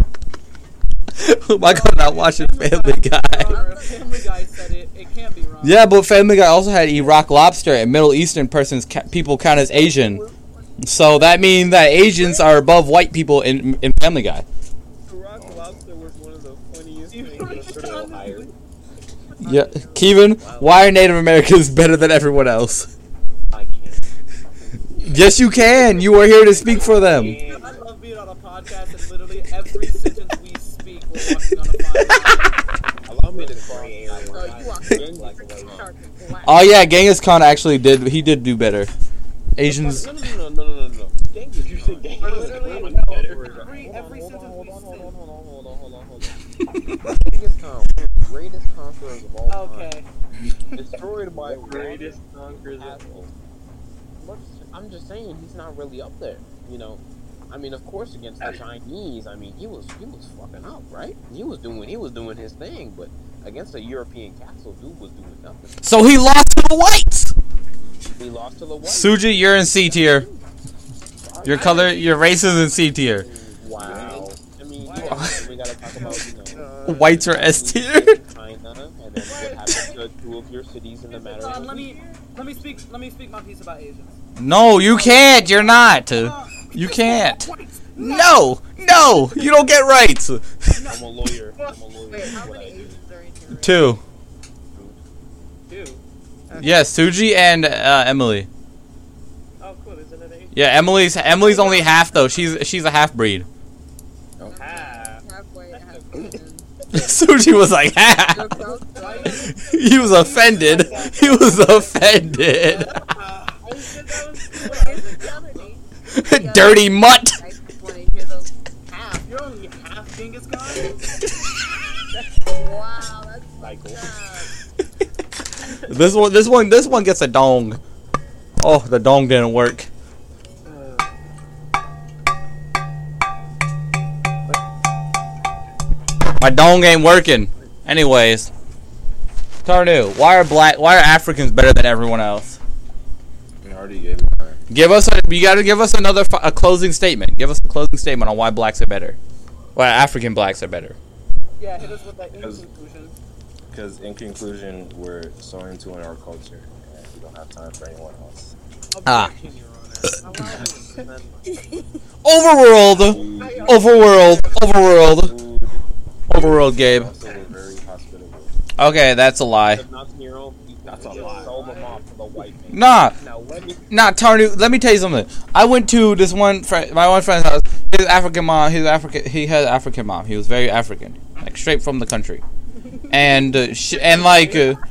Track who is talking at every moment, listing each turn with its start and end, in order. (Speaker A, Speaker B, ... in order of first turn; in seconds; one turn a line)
Speaker A: 1.2-3.6
Speaker B: 1.5-5.8
Speaker C: 3.4-4.3
Speaker A: 5.6-10.2
Speaker C: 9.2-12.4
Speaker A: 10.8-14.4
Speaker D: 15.1-18.5
Speaker E: 15.3-15.9
Speaker B: 17.1-18.5
Speaker F: 17.4-17.7
Speaker C: 19.4-20.2
Speaker A: 19.4-22.9
Speaker D: 20.4-20.7
Speaker D: 23.5-23.9
Speaker A: 25.0-27.4
Speaker D: 26.4-27.8
Speaker F: 26.5-27.8
Speaker B: 27.3-32.5
Speaker D: 33.0-35.9
Speaker F: 33.3-34.7
Speaker C: 34.2-36.9
Speaker A: 36.4-38.9
Speaker A: 39.5-40.1
Speaker D: 39.6-49.9
Speaker F: 41.7-43.6
Speaker B: 42.2-45.1
Speaker B: 49.5-50.1
Speaker D: 50.7-53.3
Speaker F: 51.4-53.1
Speaker D: 54.2-65.8
Speaker A: 65.8-67.3
Speaker D: 68.0-70.4
Speaker A: 68.8-70.3
Speaker D: 71.2-72.0
Speaker A: 71.4-73.2
Speaker B: 71.4-72.6
Speaker D: 73.2-81.8
Speaker E: 73.8-74.3
Speaker F: 74.8-75.9
Speaker A: 76.8-78.2
Speaker F: 79.2-80.0
Speaker F: 81.1-82.3
Speaker B: 81.3-84.1
Speaker A: 84.4-90.8
Speaker B: 84.7-89.7
Speaker B: 90.7-91.7
Speaker D: 90.8-93.0
Speaker C: 92.1-94.0
Speaker A: 93.5-94.0
Speaker D: 94.7-95.0
Speaker F: 95.7-96.0
Speaker B: 96.5-96.8
Speaker A: 96.6-98.5
Speaker F: 99.6-101.1
Speaker A: 100.5-103.5
Speaker C: 101.3-102.0
Speaker E: 104.4-104.8
Speaker C: 104.5-107.1
Speaker F: 104.5-106.4
Speaker A: 106.9-108.6
Speaker C: 108.1-109.5
Speaker F: 108.9-112.4
Speaker B: 108.9-113.2
Speaker A: 109.5-112.9
Speaker C: 110.7-111.8
Speaker F: 113.2-115.7
Speaker C: 114.5-119.3
Speaker B: 114.6-115.2
Speaker A: 116.1-117.4
Speaker B: 119.2-121.1
Speaker C: 122.4-124.5
Speaker F: 123.6-124.1
Speaker A: 125.8-127.8
Speaker A: 128.6-129.9
Speaker F: 130.7-131.1
Speaker A: 136.4-138.5
Speaker A: 139.6-142.6
Speaker E: 143.6-144.6
Speaker A: 144.7-149.2
Speaker A: 149.7-150.9
Speaker B: 151.6-153.1
Speaker E: 152.4-152.7
Speaker E: 153.7-158.5
Speaker D: 158.9-161.5
Speaker A: 159.1-159.3
Speaker C: 161.4-161.9
Speaker A: 162.2-165.3
Speaker E: 162.9-164.1
Speaker C: 163.3-164.6
Speaker D: 163.4-163.7
Speaker E: 164.9-168.5
Speaker A: 166.3-167.1
Speaker A: 168.8-169.8
Speaker D: 169.6-173.9
Speaker E: 170.8-171.6
Speaker F: 171.0-171.8
Speaker A: 172.7-173.2
Speaker A: 173.9-182.4
Speaker B: 183.0-184.7
Speaker A: 183.1-184.8